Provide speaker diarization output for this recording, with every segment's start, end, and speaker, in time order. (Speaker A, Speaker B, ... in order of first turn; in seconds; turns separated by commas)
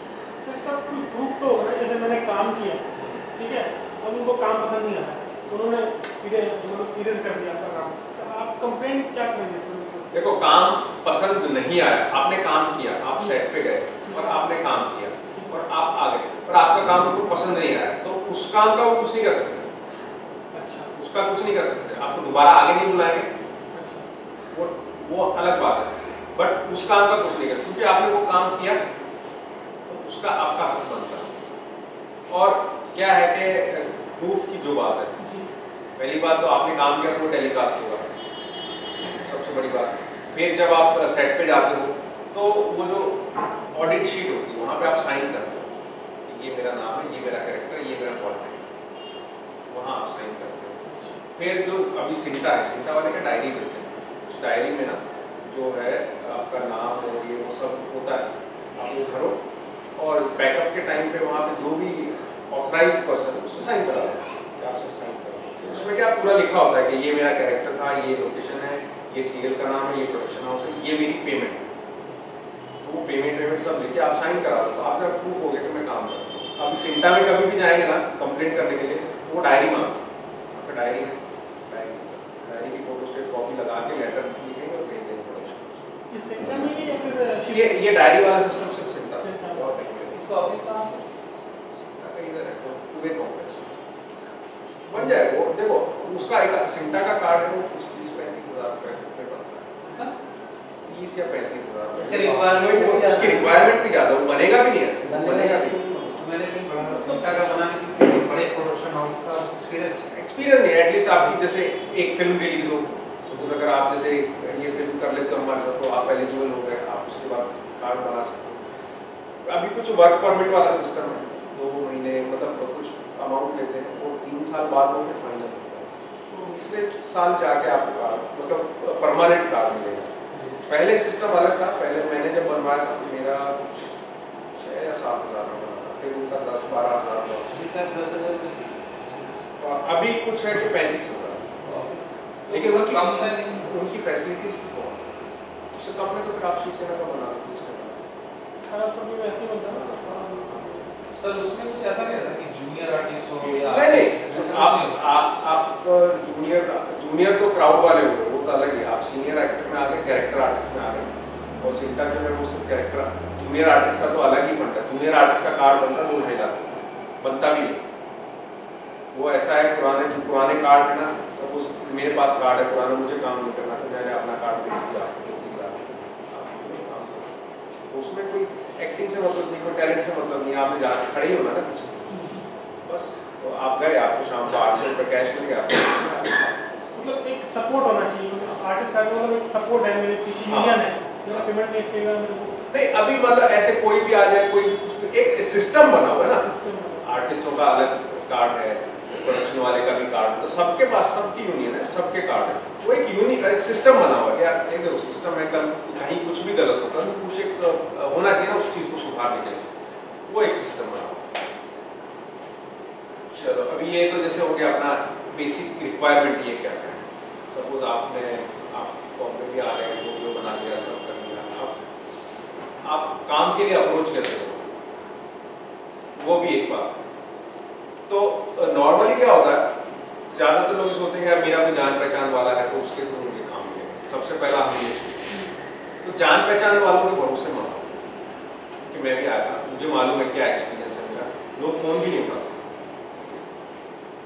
Speaker A: 0.4-2.8, Speaker B: 3.0-3.2, Speaker A: 3.3-10.1, Speaker B: 10.1-19.7, Speaker A: 14.1-14.3, Speaker A: 20.5-20.9, Speaker B: 20.9-23.3, Speaker A: 23.7-24.0, Speaker B: 24.5-28.8, Speaker B: 29.9-31.3, Speaker B: 32.3-35.1, Speaker A: 35.2-35.5, Speaker B: 36.0-38.1, Speaker B: 39.0-45.7, Speaker B: 46.2-48.6, Speaker B: 49.7-50.8, Speaker A: 50.9-51.2, Speaker B: 51.4-59.4, Speaker B: 60.0-71.7, Speaker B: 72.8-85.9, Speaker A: 86.1-87.8, Speaker B: 87.5-90.2, Speaker A: 89.2-89.6, Speaker C: 90.1-91.0, Speaker B: 91.7-93.7, Speaker B: 94.9-99.8, Speaker C: 99.9-100.1, Speaker B: 100.8-105.8, Speaker D: 101.9-103.7, Speaker D: 105.0-110.1, Speaker B: 110.1-118.6, Speaker B: 119.4-130.1, Speaker B: 130.7-133.9, Speaker B: 134.5-137.5, Speaker D: 137.5-139.4, Speaker B: 139.6-141.8, Speaker D: 141.6-142.1, Speaker C: 142.5-143.7, Speaker B: 142.5-145.1, Speaker B: 145.7-148.1, Speaker A: 148.6-149.8, Speaker B: 149.7-150.8, Speaker C: 151.1-155.1, Speaker B: 153.4-167.8, Speaker B: 169.1-177.3, Speaker B: 177.8-182.2, Speaker A: 182.1-182.4, Speaker B: 182.8-186.7, Speaker A: 186.9-192.5, Speaker B: 190.5-191.5, Speaker B: 192.7-196.4, Speaker A: 196.4-197.0, Speaker B: 197.0-209.7, Speaker B: 210.3-211.3, Speaker B: 213.3-221.8, Speaker B: 222.8-224.7, Speaker B: 226.2-227.0, Speaker B: 228.1-229.7, Speaker B: 230.3-235.4, Speaker B: 236.0-238.0, Speaker B: 238.9-242.6